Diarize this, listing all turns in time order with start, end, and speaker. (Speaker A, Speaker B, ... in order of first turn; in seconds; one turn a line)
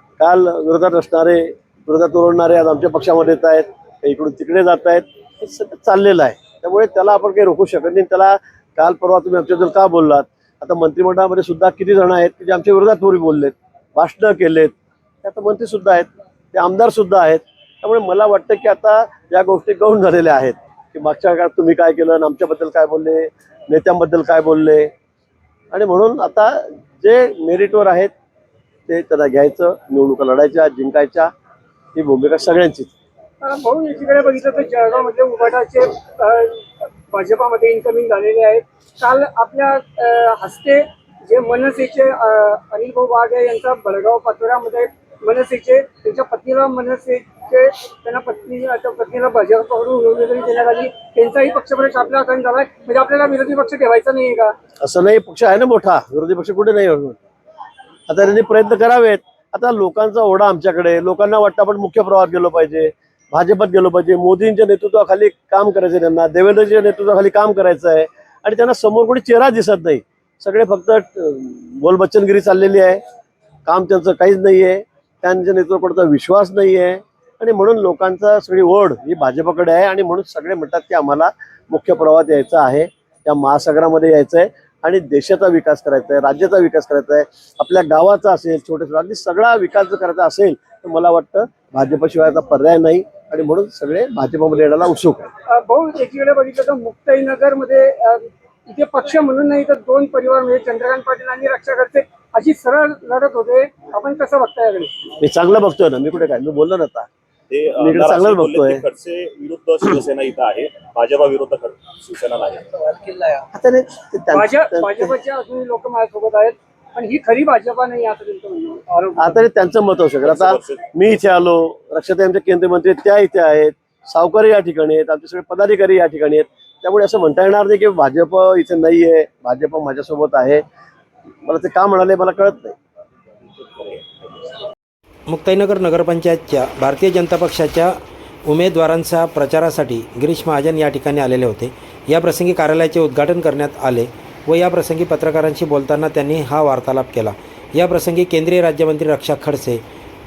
Speaker A: 0.2-24.9
Speaker A: 25.7-28.1
Speaker A: 28.9-31.3
Speaker A: 31.9-32.9
Speaker B: 33.4-54.5
Speaker A: 54.8-57.2
Speaker A: 58.1-73.0
Speaker A: 73.7-95.3
Speaker B: 95.5-104.9
Speaker A: 105.2-107.1
Speaker C: 107.5-112.9
Speaker A: 107.8-108.8
Speaker A: 113.5-115.1
Speaker B: 114.3-119.4
Speaker A: 119.2-130.6
Speaker C: 120.2-120.8
Speaker A: 131.4-132.8
Speaker C: 133.6-134.0
Speaker D: 135.3-149.8